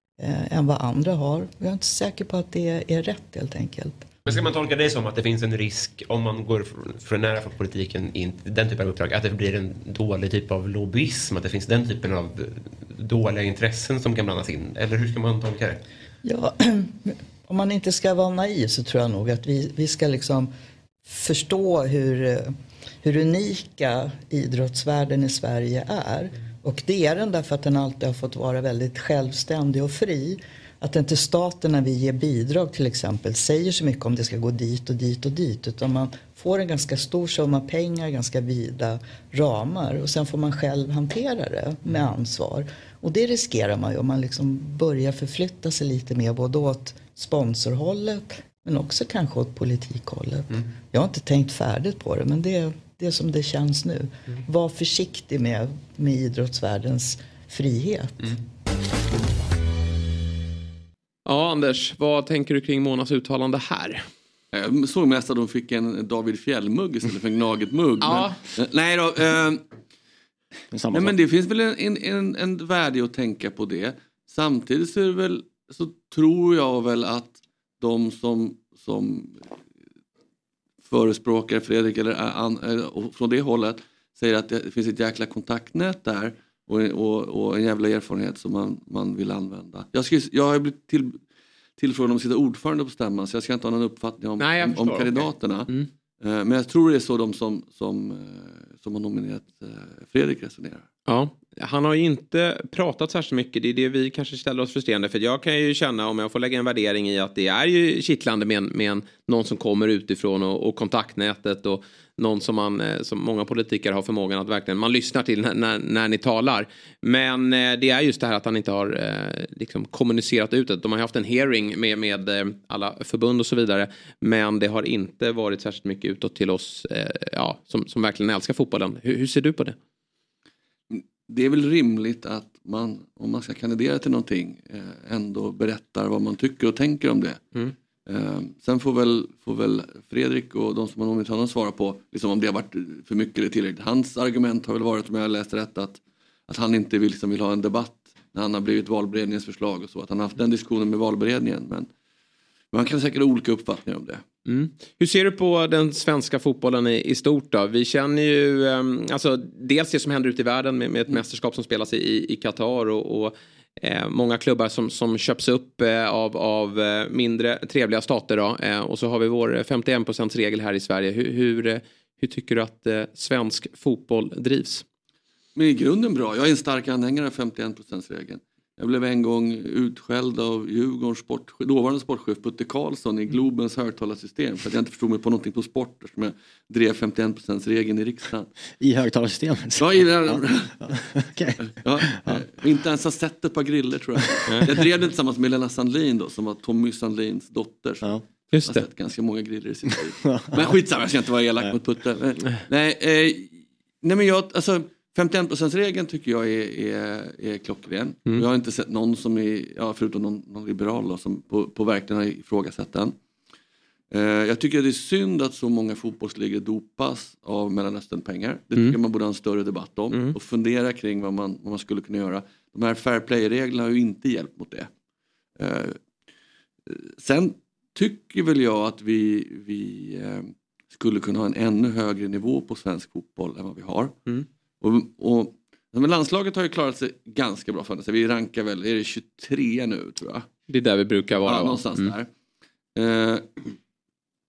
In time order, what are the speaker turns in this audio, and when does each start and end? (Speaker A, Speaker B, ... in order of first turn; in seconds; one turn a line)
Speaker A: 0.2-4.1
Speaker B: 4.2-15.8
Speaker A: 16.2-20.5
Speaker A: 21.1-58.4
Speaker C: 61.2-64.0
Speaker D: 64.5-69.6
Speaker C: 68.0-68.4
Speaker E: 70.7-71.2
Speaker D: 70.9-79.4
Speaker D: 80.8-91.2
Speaker D: 91.8-100.9
Speaker C: 94.4-95.9
Speaker C: 101.1-129.8
Speaker D: 130.9-137.4
Speaker D: 138.1-151.9
Speaker D: 152.7-154.2
Speaker C: 154.4-174.8
Speaker D: 175.5-188.5
Speaker E: 188.8-192.4
Speaker D: 189.8-190.9
Speaker D: 191.6-213.2
Speaker C: 198.5-198.8
Speaker E: 200.2-200.8
Speaker D: 214.1-224.9
Speaker D: 225.6-226.0
Speaker D: 226.9-234.2
Speaker D: 234.8-240.5
Speaker C: 240.7-242.1
Speaker D: 241.4-242.3
Speaker D: 242.9-243.5